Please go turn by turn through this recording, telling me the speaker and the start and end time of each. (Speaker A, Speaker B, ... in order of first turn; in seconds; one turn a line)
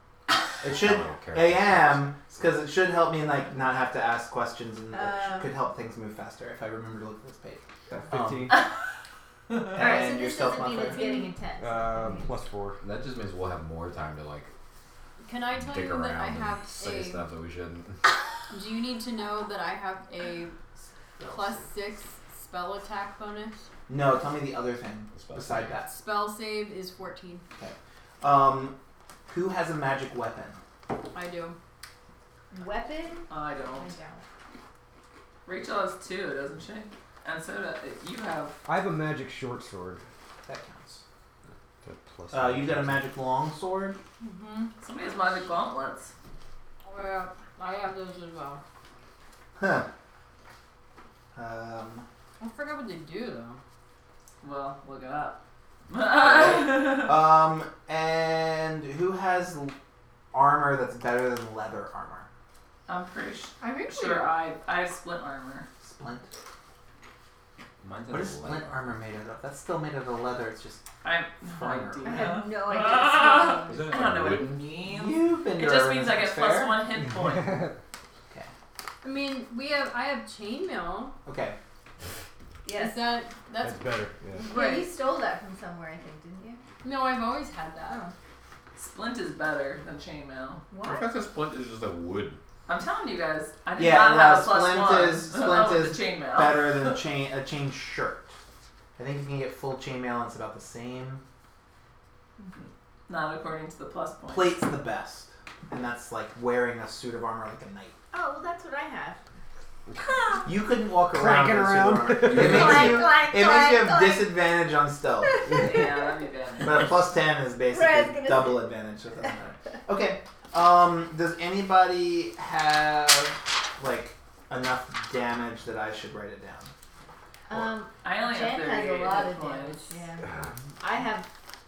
Speaker A: 0.6-8.6
Speaker B: 0.6-2.2
Speaker C: 4.9-5.5
Speaker D: 7.9-8.7
Speaker A: 9.7-11.0
Speaker C: 9.7-12.2
Speaker E: 10.9-11.3
Speaker D: 11.6-12.8
Speaker B: 12.8-14.5
Speaker E: 15.2-17.2
Speaker B: 15.5-18.1
Speaker E: 18.5-20.5
Speaker A: 20.8-21.6
Speaker E: 21.3-23.7
Speaker A: 23.9-25.9
Speaker B: 25.1-25.8
Speaker E: 25.9-27.4
Speaker A: 27.6-28.7
Speaker A: 29.3-30.6
Speaker E: 31.1-31.6
Speaker C: 32.5-34.2
Speaker F: 33.3-33.9
Speaker F: 35.5-38.6
Speaker D: 38.6-40.0
Speaker A: 40.4-41.0
Speaker D: 41.8-43.1
Speaker A: 42.3-44.0
Speaker E: 44.2-44.7
Speaker F: 44.8-46.1
Speaker E: 46.8-48.6
Speaker A: 49.5-49.9
Speaker A: 51.3-52.0
Speaker E: 52.4-53.6
Speaker F: 54.4-57.2
Speaker A: 56.2-59.8
Speaker A: 60.3-62.3
Speaker F: 62.9-65.7
Speaker E: 63.6-64.2
Speaker A: 65.8-66.3
Speaker B: 67.8-68.9
Speaker A: 68.1-70.8
Speaker F: 71.0-77.6
Speaker A: 71.4-72.3
Speaker C: 72.0-74.1
Speaker B: 73.6-74.7
Speaker A: 74.9-76.8
Speaker D: 77.0-77.8
Speaker E: 79.0-81.2
Speaker A: 81.2-81.6
Speaker C: 82.6-83.1
Speaker E: 82.7-84.9
Speaker D: 83.6-84.5
Speaker C: 84.4-86.6
Speaker E: 86.8-88.0
Speaker C: 87.8-88.1
Speaker F: 88.8-90.6
Speaker C: 90.7-91.3
Speaker B: 90.8-92.4
Speaker F: 92.7-97.0
Speaker A: 93.8-98.4
Speaker A: 99.0-101.2
Speaker F: 102.5-104.6
Speaker A: 104.3-108.0
Speaker C: 108.1-109.2
Speaker C: 110.0-110.4
Speaker A: 110.4-115.5
Speaker D: 111.1-113.0
Speaker C: 112.3-114.3
Speaker C: 115.2-116.2
Speaker F: 115.5-116.9
Speaker A: 116.6-126.7
Speaker C: 117.7-118.7
Speaker C: 127.5-131.3
Speaker F: 128.0-130.0